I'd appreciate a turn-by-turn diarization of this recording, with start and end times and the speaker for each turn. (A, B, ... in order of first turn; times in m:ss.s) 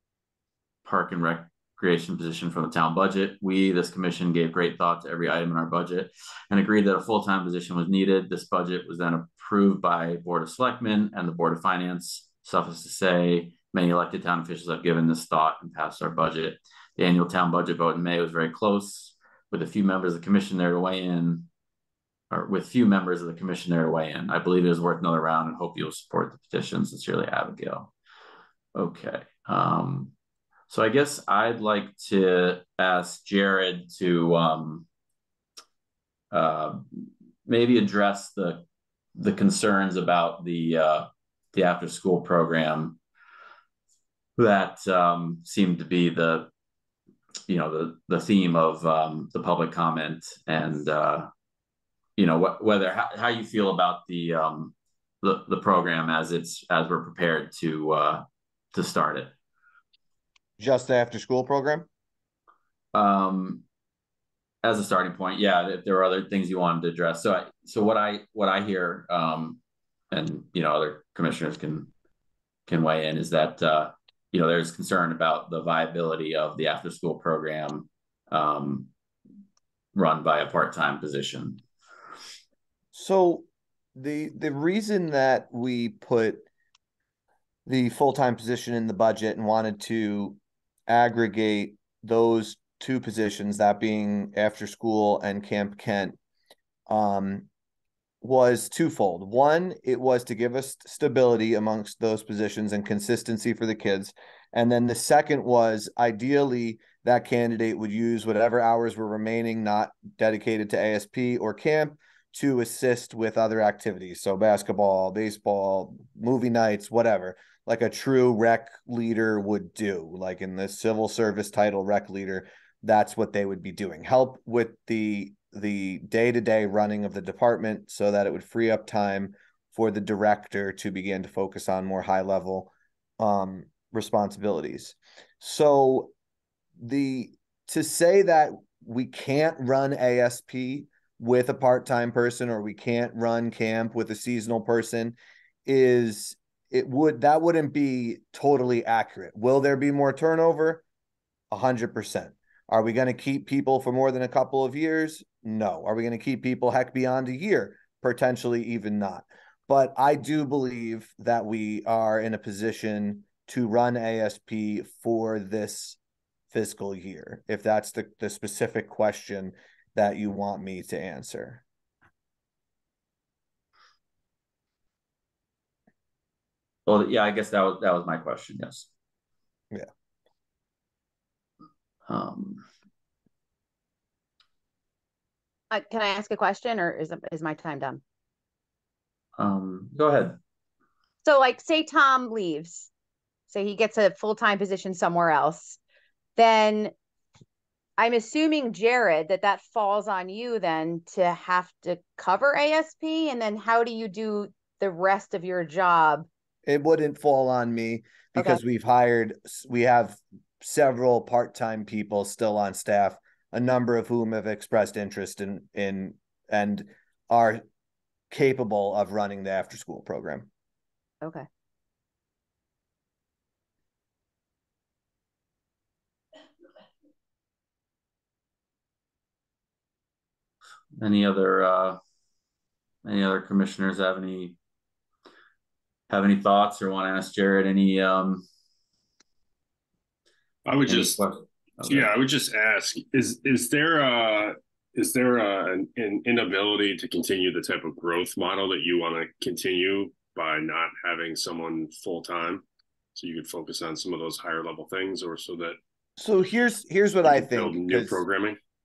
0:00.8-0:21.5 A
0:22.3-0:27.9 A
0:28.7-0:30.1 A
0:30.7-0:34.8 A
0:36.3-0:38.6 A
0:39.2-0:43.0 A
0:44.4-0:46.5 A
0:47.5-0:51.3 A
0:52.2-0:59.3 A
1:00.6-1:01.9 B
1:02.9-1:03.6 A
1:04.6-1:09.6 A
1:10.1-1:11.9 A
1:12.7-1:18.9 A
1:19.9-1:21.6 A
1:22.9-1:26.4 B
1:27.6-1:36.2 B
1:36.9-1:37.5 B
1:38.2-2:16.1 B
2:16.8-2:30.8 B
2:31.5-2:46.0 B
2:46.5-2:51.6 B
2:56.8-2:58.9 A
3:02.1-3:02.6 A
3:05.7-3:08.0 C
3:09.4-3:10.4 A
3:11.2-3:12.9 C
3:13.5-3:15.8 C
3:16.4-3:16.9 C
3:18.0-3:26.3 C
3:26.6-3:37.6 B
3:38.3-3:40.5 B
3:51.0-3:52.0 A
3:53.0-3:54.6 A
3:56.1-3:58.4 A
4:00.6-4:01.2 D
4:00.9-4:02.2 A
4:01.8-4:12.6 D
4:13.2-4:15.8 D
4:16.2-4:18.2 B
4:17.2-4:18.6 D